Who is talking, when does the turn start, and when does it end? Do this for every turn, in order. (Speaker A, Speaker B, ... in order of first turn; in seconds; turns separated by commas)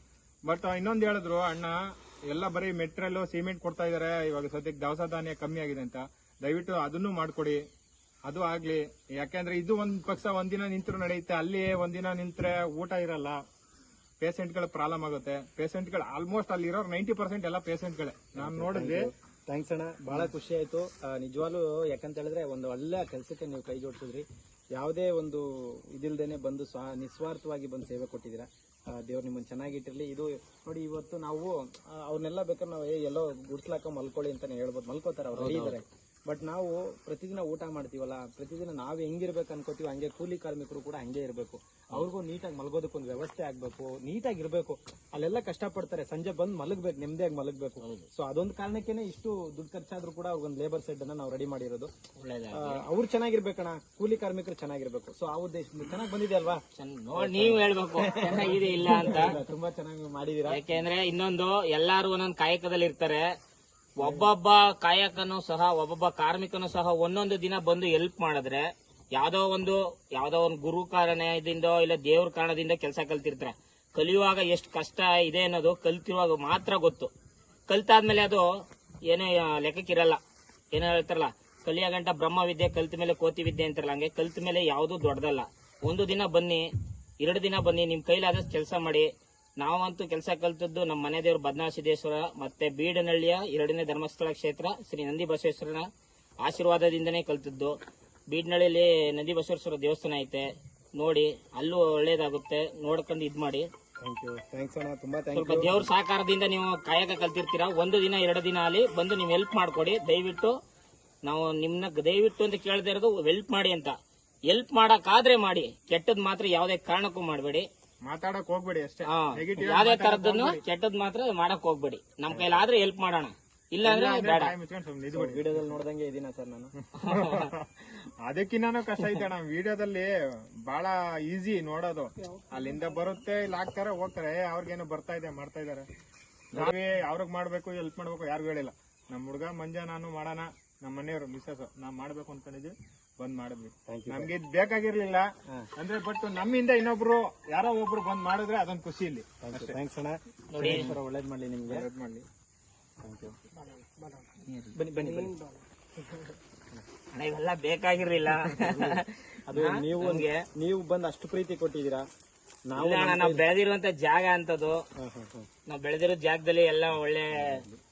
Speaker A: 0.5-7.6, Speaker A: 8.2-13.4, Speaker A: 14.2-19.1, Speaker B: 18.4-51.9, Speaker C: 35.4-35.8, Speaker C: 47.8-48.1, Speaker C: 52.2-52.8, Speaker B: 52.5-56.6, Speaker C: 56.7-59.4, Speaker B: 57.1-60.6, Speaker C: 60.5-63.2, Speaker C: 64.0-77.1, Speaker B: 64.0-64.2, Speaker C: 77.7-78.5, Speaker C: 79.0-80.2, Speaker C: 80.7-86.7, Speaker C: 87.2-95.9, Speaker C: 96.4-97.8, Speaker C: 98.3-103.7, Speaker B: 104.0-105.9, Speaker C: 105.3-110.6, Speaker C: 111.2-114.0, Speaker C: 114.5-117.7, Speaker A: 118.0-120.6, Speaker C: 119.0-124.5, Speaker A: 123.8-125.7, Speaker B: 125.1-126.7, Speaker A: 127.0-130.1, Speaker C: 127.0-127.5, Speaker A: 130.7-135.9, Speaker A: 136.5-149.8, Speaker B: 143.9-144.3, Speaker B: 149.4-151.8, Speaker C: 150.5-150.9, Speaker A: 150.6-151.0, Speaker A: 151.7-152.2, Speaker B: 153.0-153.4, Speaker C: 154.4-154.7, Speaker B: 154.7-155.4, Speaker C: 157.1-160.4, Speaker B: 158.5-162.0, Speaker B: 162.7-163.4, Speaker C: 162.8-164.9, Speaker B: 165.0-165.5, Speaker C: 165.7-167.6, Speaker B: 167.4-167.8